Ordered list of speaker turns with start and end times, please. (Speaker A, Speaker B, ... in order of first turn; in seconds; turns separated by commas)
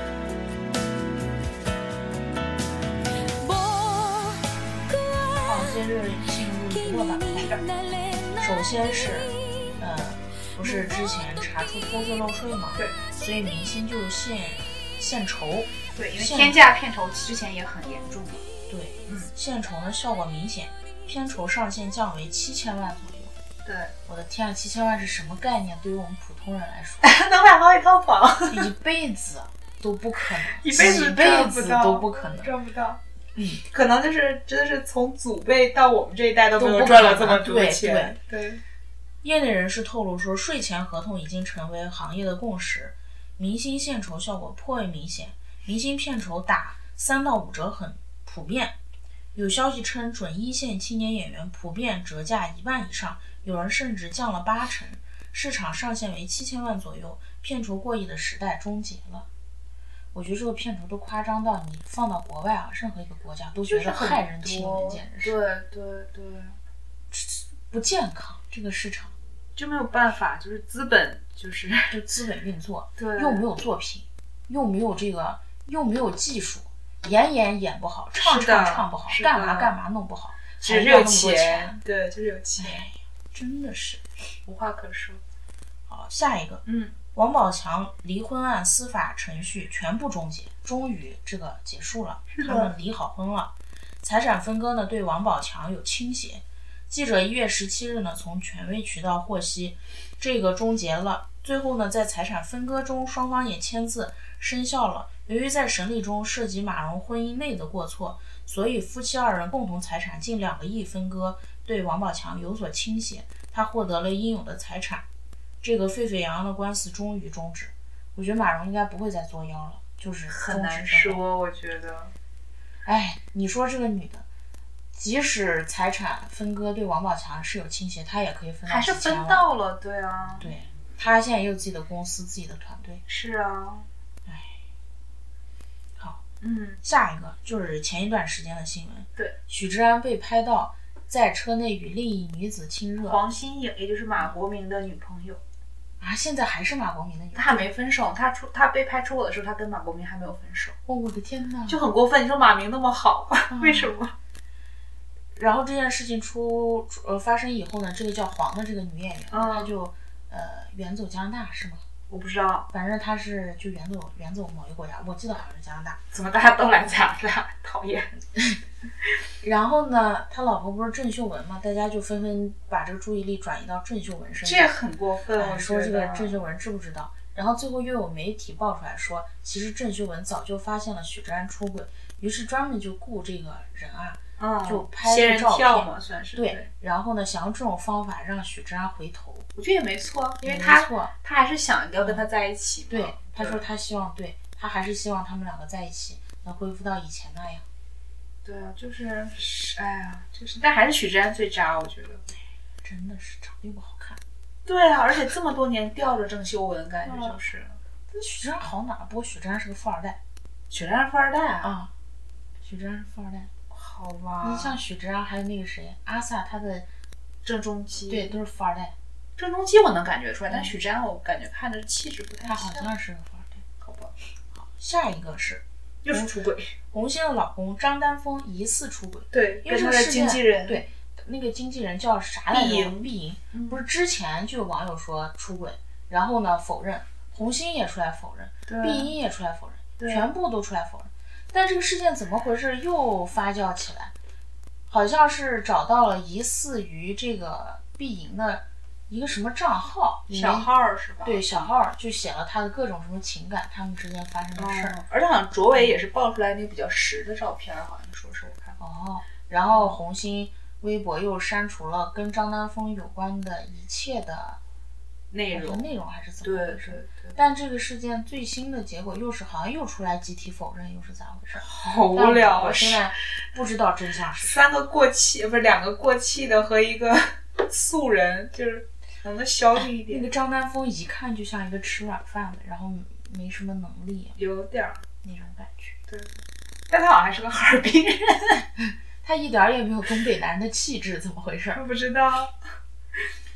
Speaker A: 3.3-9.8, Speaker B: 5.4-7.6, Speaker B: 8.4-16.6, Speaker C: 15.9-18.5, Speaker B: 18.7-23.3, Speaker C: 19.1-19.3, Speaker C: 23.6-23.9, Speaker B: 24.1-27.1, Speaker C: 27.0-28.7, Speaker B: 28.5-32.5, Speaker C: 30.4-33.0, Speaker B: 33.4-33.6, Speaker C: 33.7-38.6, Speaker B: 36.6-38.2, Speaker B: 39.2-48.8, Speaker B: 49.4-59.3, Speaker B: 60.1-65.4, Speaker C: 63.6-66.6, Speaker B: 67.1-69.1, Speaker C: 69.6-72.0, Speaker B: 71.9-81.8, Speaker C: 73.0-73.5, Speaker C: 78.2-79.7, Speaker C: 80.6-82.9, Speaker B: 82.6-84.1, Speaker C: 84.5-85.2, Speaker B: 85.9-86.6, Speaker C: 86.7-87.0, Speaker B: 87.1-93.5, Speaker C: 92.3-92.7, Speaker B: 94.0-115.0, Speaker B: 115.6-121.2, Speaker C: 120.3-122.1, Speaker B: 122.8-124.2, Speaker B: 125.0-129.4, Speaker C: 128.7-130.5, Speaker B: 130.4-133.0, Speaker C: 133.1-133.9, Speaker B: 134.3-134.6, Speaker C: 136.4-136.8, Speaker B: 136.8-143.2, Speaker C: 143.0-145.4, Speaker B: 146.0-147.7, Speaker C: 147.3-150.8, Speaker B: 150.9-151.8, Speaker C: 151.7-154.1, Speaker B: 153.5-153.9, Speaker B: 155.3-161.8, Speaker C: 159.3-159.7, Speaker C: 162.1-162.7, Speaker B: 162.7-166.0, Speaker C: 166.1-168.1, Speaker B: 169.4-174.8, Speaker C: 174.4-176.4, Speaker B: 175.4-189.5, Speaker C: 184.4-186.7, Speaker C: 189.6-193.6, Speaker B: 190.4-191.1, Speaker B: 192.9-197.7, Speaker C: 198.4-202.2, Speaker B: 202.8-204.2, Speaker C: 204.7-207.8, Speaker B: 207.1-207.4, Speaker B: 208.1-210.2, Speaker C: 210.7-211.7, Speaker B: 211.6-211.9, Speaker B: 212.6-213.5, Speaker C: 213.7-214.8, Speaker B: 214.4-216.9, Speaker C: 217.4-218.3, Speaker B: 218.1-218.9, Speaker C: 219.4-222.9, Speaker B: 220.5-220.7, Speaker B: 222.4-223.6, Speaker C: 223.8-224.2, Speaker B: 224.5-226.3, Speaker C: 226.0-226.7, Speaker B: 226.9-244.1, Speaker C: 229.3-230.8, Speaker C: 232.5-233.8, Speaker C: 238.7-239.1, Speaker C: 240.0-240.3, Speaker B: 244.9-250.7, Speaker C: 250.3-251.6, Speaker B: 251.2-255.0, Speaker C: 254.6-258.8, Speaker B: 258.8-264.6, Speaker C: 259.7-260.0, Speaker C: 265.3-265.9, Speaker B: 265.5-274.7, Speaker C: 266.4-267.4, Speaker C: 271.6-273.1, Speaker C: 274.4-280.3, Speaker B: 279.8-284.4, Speaker C: 284.4-285.0, Speaker B: 285.2-286.0, Speaker C: 286.1-286.3, Speaker C: 286.9-288.6, Speaker B: 288.8-291.8, Speaker C: 291.7-292.5